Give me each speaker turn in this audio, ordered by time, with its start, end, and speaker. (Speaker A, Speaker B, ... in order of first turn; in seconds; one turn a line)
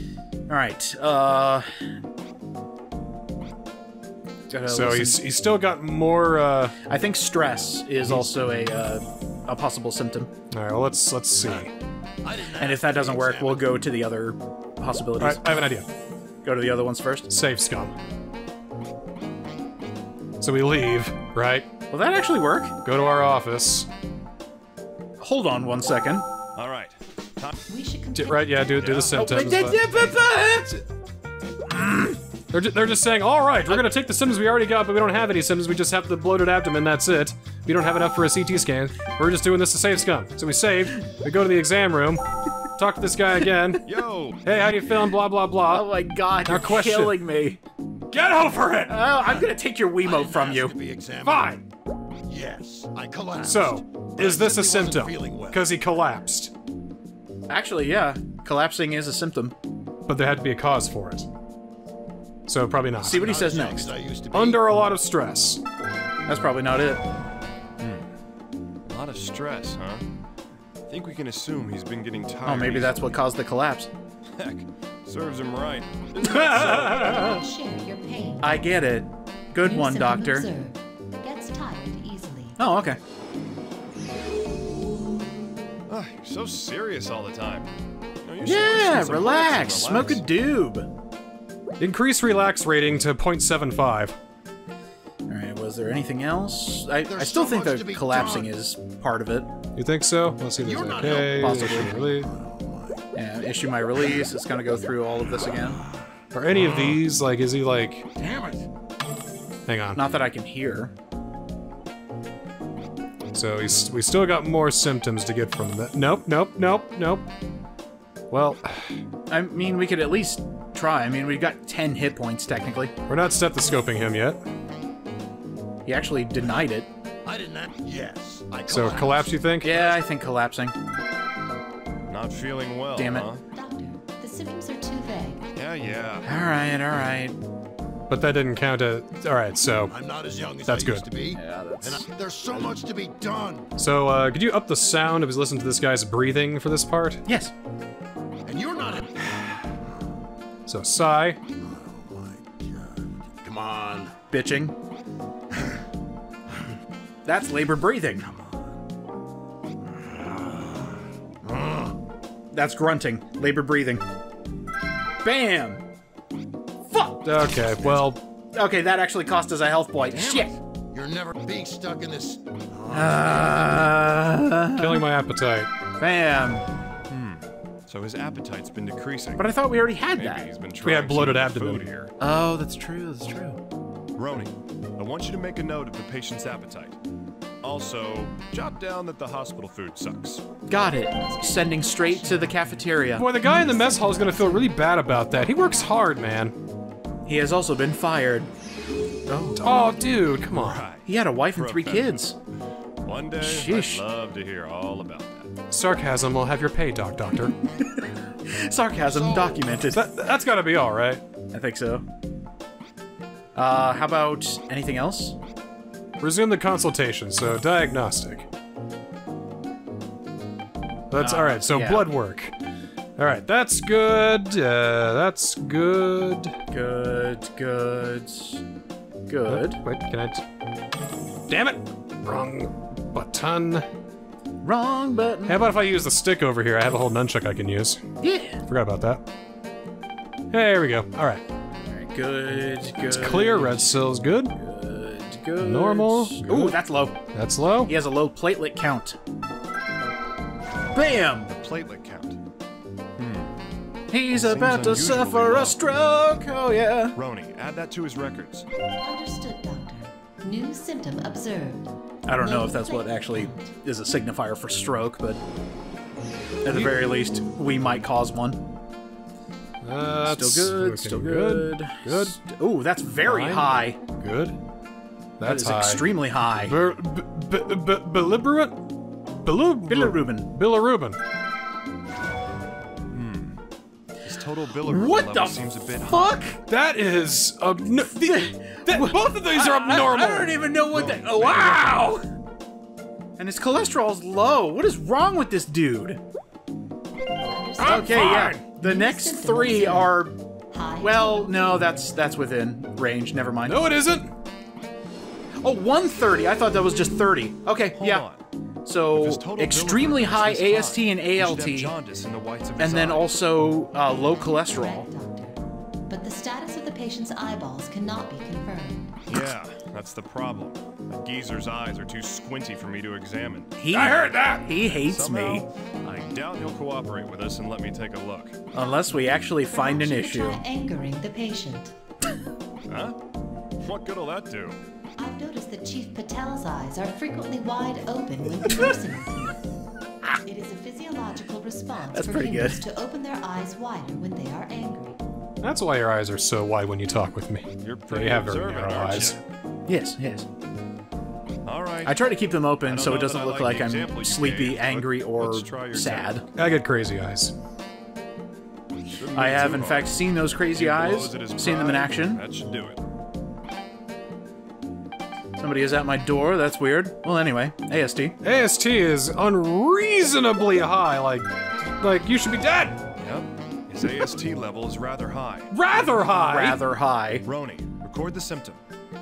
Speaker A: 0.5-1.7
Speaker A: 4.5-5.2
Speaker B: 4.7-6.8
Speaker A: 6.9-10.3
Speaker B: 8.0-8.3
Speaker B: 10.5-11.7
Speaker C: 11.4-11.7
Speaker C: 12.2-13.7
Speaker A: 12.6-15.5
Speaker B: 15.2-15.9
Speaker A: 16.4-17.3
Speaker B: 17.3-17.9
Speaker B: 20.4-21.7
Speaker A: 21.9-22.7
Speaker B: 22.9-23.9
Speaker A: 25.2-26.3
Speaker D: 26.6-27.6
Speaker E: 27.7-28.7
Speaker B: 28.1-29.8
Speaker D: 28.8-29.2
Speaker A: 29.1-30.8
Speaker A: 31.7-32.2
Speaker B: 32.5-42.2
Speaker B: 42.8-43.8
Speaker D: 43.9-44.4
Speaker B: 44.4-45.9
Speaker A: 45.7-47.6
Speaker B: 46.5-47.2
Speaker B: 48.1-49.0
Speaker A: 48.9-50.8
Speaker C: 49.1-49.5
Speaker C: 50.0-51.5
Speaker B: 51.2-51.6
Speaker C: 52.3-55.6
Speaker B: 53.4-56.5
Speaker A: 57.5-59.5
Speaker B: 60.1-61.3
Speaker B: 62.5-63.4
Speaker A: 63.0-63.9
Speaker C: 63.0-64.6
Speaker B: 64.3-65.6
Speaker A: 66.3-67.0
Speaker D: 67.8-68.1
Speaker D: 68.9-70.0
Speaker D: 70.9-73.2
Speaker A: 72.5-73.9
Speaker D: 74.3-77.2
Speaker B: 76.2-77.4
Speaker E: 76.8-78.7
Speaker A: 78.4-80.5
Speaker E: 79.6-82.6
Speaker A: 82.6-83.0
Speaker D: 85.9-87.7
Speaker D: 88.2-90.3
Speaker A: 88.4-90.9
Speaker B: 91.8-94.2
Speaker A: 95.3-99.5
Speaker C: 97.1-98.5
Speaker B: 99.8-102.3
Speaker C: 100.6-103.0
Speaker A: 101.4-102.0
Speaker A: 103.2-105.8
Speaker B: 106.3-108.1
Speaker C: 108.2-108.7
Speaker B: 109.7-110.0
Speaker A: 110.0-110.9
Speaker B: 113.3-117.2
Speaker B: 118.3-119.0
Speaker A: 119.3-122.9
Speaker B: 123.1-124.4
Speaker A: 125.9-126.9
Speaker C: 127.3-129.3
Speaker B: 128.7-129.9
Speaker A: 129.6-130.8
Speaker D: 132.1-133.4
Speaker A: 132.9-133.3
Speaker E: 133.5-135.4
Speaker D: 135.6-136.3
Speaker A: 136.3-137.4
Speaker B: 138.1-139.9
Speaker C: 139.9-143.7
Speaker B: 140.7-141.1
Speaker A: 141.3-142.1
Speaker B: 143.8-147.2
Speaker A: 147.3-147.5
Speaker C: 148.5-149.2
Speaker B: 150.7-151.4
Speaker C: 151.6-154.1
Speaker A: 154.3-154.8
Speaker A: 157.2-158.3
Speaker C: 158.2-158.7
Speaker C: 159.9-162.0
Speaker A: 162.5-164.0
Speaker A: 165.2-165.8
Speaker A: 166.9-168.0
Speaker B: 167.2-168.2
Speaker A: 168.5-170.5
Speaker C: 170.0-173.7
Speaker A: 172.9-175.1
Speaker B: 174.8-175.7
Speaker A: 176.0-176.7
Speaker D: 177.1-179.5
Speaker A: 179.4-180.5
Speaker D: 180.2-182.1
Speaker B: 180.8-181.8
Speaker A: 182.2-183.6
Speaker D: 184.2-187.0
Speaker D: 187.6-190.4
Speaker A: 190.7-193.3
Speaker E: 191.1-192.8
Speaker B: 193.2-196.5
Speaker E: 193.4-196.1
Speaker A: 197.2-198.5
Speaker A: 199.3-199.9
Speaker B: 199.6-200.8
Speaker D: 200.5-202.3
Speaker A: 201.1-202.3
Speaker D: 203.0-205.5
Speaker A: 203.4-204.0
Speaker B: 205.7-207.6
Speaker A: 207.5-210.1
Speaker C: 209.0-209.8
Speaker B: 209.9-211.2
Speaker A: 211.5-212.1
Speaker A: 213.6-215.4
Speaker B: 216.2-218.5
Speaker B: 221.1-222.5
Speaker A: 221.2-222.1
Speaker B: 223.2-226.5
Speaker A: 226.7-228.6
Speaker A: 229.3-229.8
Speaker B: 229.5-230.4
Speaker B: 231.5-233.9
Speaker A: 234.6-235.7
Speaker B: 235.5-238.0
Speaker A: 238.2-238.6
Speaker B: 238.7-239.2
Speaker B: 240.5-241.4
Speaker A: 241.8-247.2
Speaker B: 243.1-244.5
Speaker B: 245.6-246.8
Speaker B: 247.3-247.9
Speaker A: 247.8-249.2
Speaker A: 250.9-251.5
Speaker D: 251.5-252.4
Speaker D: 253.2-253.5
Speaker A: 254.1-257.2
Speaker D: 254.3-255.8
Speaker D: 257.2-258.7
Speaker E: 259.0-263.7
Speaker A: 262.3-265.4
Speaker A: 266.6-268.6
Speaker B: 269.8-272.4
Speaker A: 270.2-274.0
Speaker B: 273.2-274.6
Speaker B: 275.4-276.1
Speaker A: 275.4-276.8
Speaker B: 276.6-278.8
Speaker B: 279.4-281.2
Speaker A: 279.9-280.5
Speaker D: 283.1-283.6
Speaker D: 284.2-286.4
Speaker A: 284.9-286.6
Speaker B: 286.7-290.6
Speaker A: 288.1-292.2
Speaker D: 290.9-292.1
Speaker A: 293.4-296.2
Speaker E: 297.5-300.2
Speaker B: 297.8-298.6
Speaker A: 297.8-300.4
Speaker E: 300.7-302.1
Speaker A: 301.0-303.8
Speaker B: 303.7-304.3
Speaker A: 305.6-308.2
Speaker D: 308.0-308.4
Speaker A: 308.9-311.9
Speaker D: 309.1-313.3
Speaker A: 312.8-315.1
Speaker E: 314.8-315.6
Speaker E: 316.1-319.2
Speaker D: 319.3-323.8
Speaker A: 323.8-325.7
Speaker B: 323.9-324.7
Speaker D: 324.7-328.6
Speaker A: 328.7-330.6
Speaker E: 329.7-331.9
Speaker D: 332.9-333.2
Speaker D: 333.8-334.8
Speaker E: 335.2-339.5
Speaker E: 340.4-345.2
Speaker A: 342.1-342.8
Speaker B: 345.6-349.4
Speaker D: 347.8-349.4
Speaker A: 349.9-350.5
Speaker D: 351.6-352.2
Speaker A: 352.1-356.4
Speaker D: 352.9-356.4
Speaker B: 356.6-357.5
Speaker D: 359.1-363.0
Speaker A: 359.3-362.4
Speaker A: 365.6-368.4
Speaker B: 368.4-373.0
Speaker D: 373.2-375.7
Speaker B: 375.7-376.8
Speaker A: 375.9-377.5
Speaker D: 377.4-378.8